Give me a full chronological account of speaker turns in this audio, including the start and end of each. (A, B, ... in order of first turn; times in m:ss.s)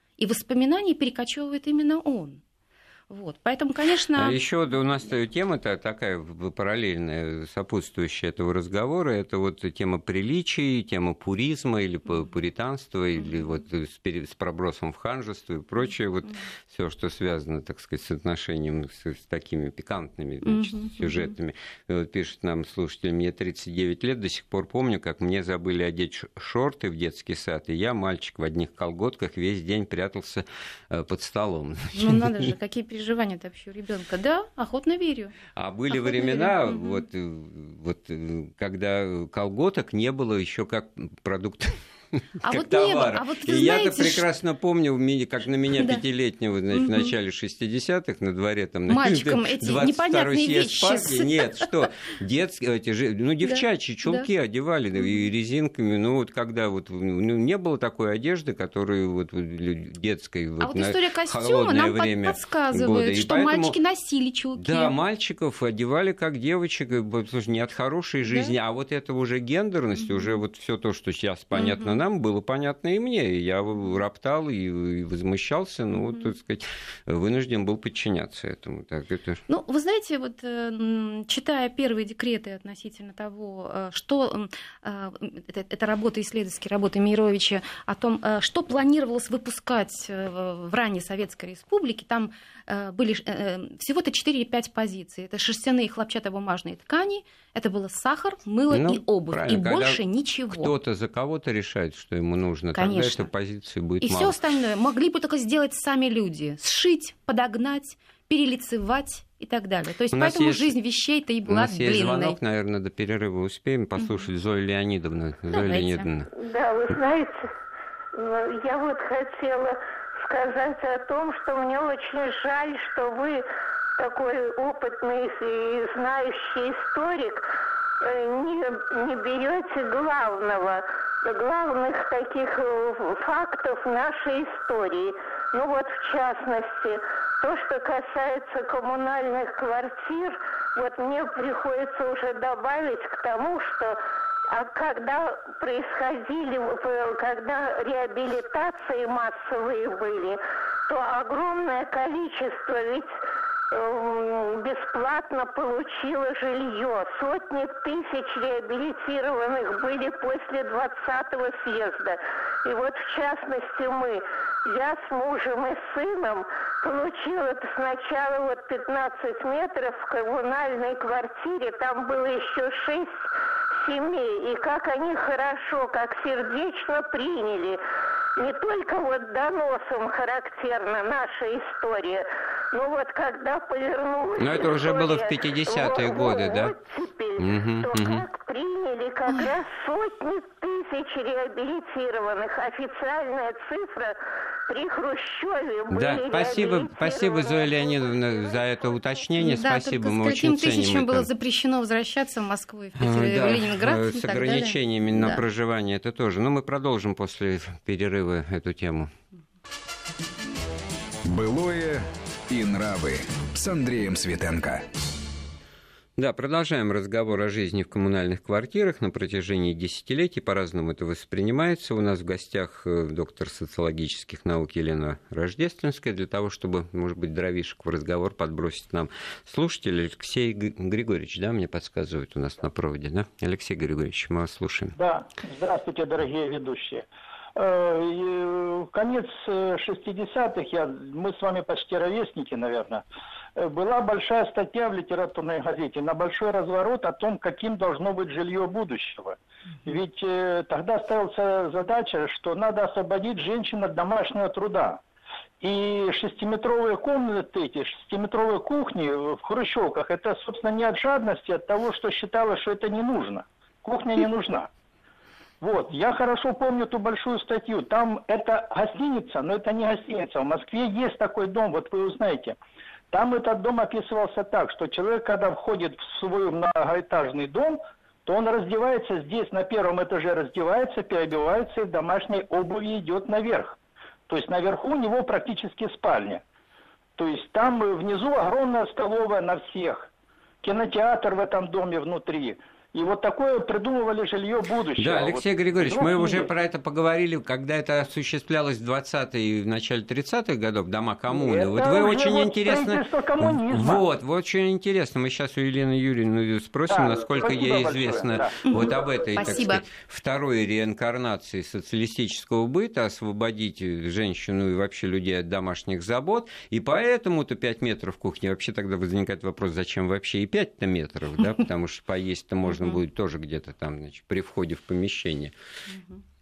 0:00.2-0:02.4 A
0:03.1-0:04.4 A
0:04.1-0:32.5 B
0:13.2-0:13.5 A
0:20.4-0:21.3 A
0:31.9-0:35.4 A
0:35.6-1:03.8 B
0:35.9-0:37.0 A
0:42.4-0:44.3 A
0:46.7-0:47.1 A
0:48.9-0:51.7 A
0:53.4-0:54.3 A
0:55.0-0:55.2 A
1:00.6-1:04.9 A
1:04.6-1:19.4 B
1:08.2-1:08.5 A
1:09.9-1:10.4 A
1:11.5-1:12.0 A
1:19.5-1:40.7 A
1:38.7-1:40.0 B
1:40.5-1:44.4 B
1:42.7-1:43.3 A
1:44.0-1:52.4 A
1:50.1-1:50.8 B
1:51.5-1:56.3 B
1:54.0-1:54.3 A
1:55.5-1:56.1 A
1:56.3-1:57.5 C
1:58.1-2:03.4 C
2:04.0-2:07.5 C
2:08.0-2:24.0 C
2:24.5-2:33.2 C
2:33.7-2:57.8 C
2:58.4-3:14.2 C
3:04.4-3:06.8 B
3:07.4-3:08.2 B
3:14.7-3:18.1 C
3:15.9-3:21.3 B
3:19.4-3:25.4 A
3:23.0-3:29.1 B
3:31.2-3:34.8 D
3:36.2-3:55.0 B
3:55.0-4:03.0 E
4:03.6-4:15.0 E
4:15.6-4:24.7 E
4:25.6-4:32.6 E
4:33.1-4:43.8 E
4:44.3-4:46.4 E
4:47.2-4:50.1 E
4:50.6-4:56.5 E
4:55.0-5:25.5 B
5:01.3-5:04.0 E
5:06.9-5:08.6 E
5:08.7-5:09.8 A
5:22.7-5:23.0 A
5:25.9-5:26.2 A